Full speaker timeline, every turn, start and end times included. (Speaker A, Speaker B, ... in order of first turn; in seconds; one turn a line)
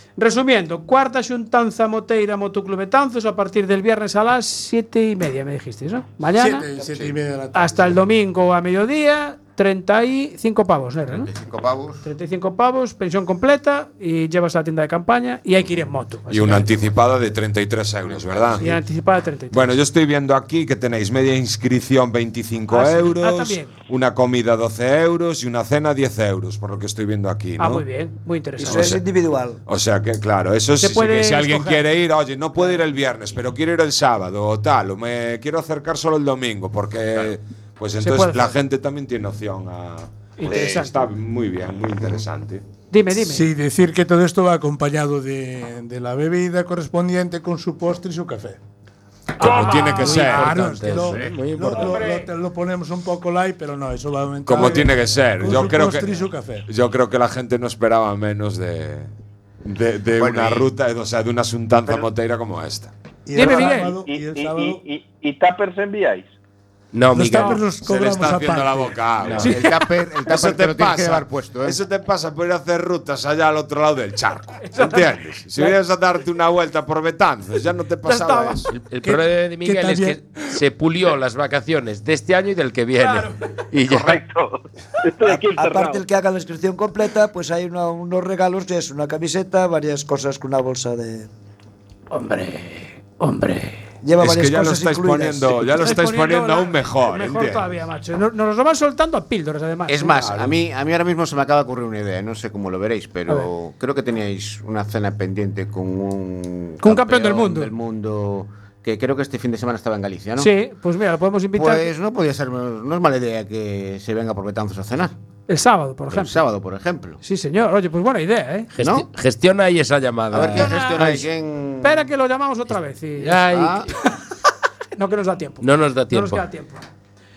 Speaker A: 0.2-6.7
Speaker B: 6.3-8.0
Speaker C: 6.8-7.2
Speaker A: 7.5-11.3
Speaker C: 11.1-12.0
Speaker A: 12.0-16.8
Speaker D: 16.3-18.8
Speaker C: 18.0-18.7
Speaker A: 18.6-19.7
Speaker D: 19.5-27.9
Speaker A: 22.7-23.7
Speaker A: 27.6-29.0
Speaker E: 28.6-29.6
Speaker D: 28.6-29.1
Speaker D: 29.7-42.6
Speaker A: 30.8-31.8
Speaker A: 38.0-38.5
Speaker A: 40.4-41.0
Speaker A: 42.9-43.5
Speaker B: 43.1-48.6
Speaker D: 49.4-50.6
Speaker A: 49.4-50.4
Speaker F: 49.4-50.0
Speaker G: 49.4-52.0
Speaker B: 50.0-56.7
Speaker A: 51.7-52.3
Speaker D: 54.5-59.1
Speaker A: 54.5-55.0
Speaker D: 59.6-62.9
Speaker C: 60.2-60.7
Speaker C: 61.7-62.1
Speaker B: 63.3-64.8
Speaker A: 63.3-64.0
Speaker F: 63.4-66.3
Speaker G: 66.9-67.7
Speaker B: 67.1-69.1
Speaker D: 67.8-78.7
Speaker C: 69.2-71.8
Speaker A: 69.4-69.8
Speaker A: 74.6-75.8
Speaker A: 78.0-78.7
Speaker G: 78.7-84.2
Speaker B: 79.0-80.5
Speaker A: 83.0-83.6
Speaker F: 83.9-86.0
Speaker E: 85.3-91.3
Speaker A: 92.1-93.8
Speaker E: 94.0-96.0
Speaker D: 94.2-97.7
Speaker A: 95.8-100.5
Speaker C: 99.9-110.5
Speaker A: 106.8-107.7
Speaker A: 110.4-111.9
Speaker C: 111.5-115.1
Speaker A: 115.5-116.5
Speaker C: 116.1-117.2
Speaker A: 117.2-118.7
Speaker G: 118.8-120.8
Speaker C: 118.8-119.1
Speaker C: 120.3-122.1
Speaker A: 120.5-121.2
Speaker A: 121.8-123.4
Speaker G: 123.2-123.9
Speaker C: 123.3-123.9
Speaker A: 124.0-124.2
Speaker A: 125.0-126.8
Speaker G: 125.6-126.4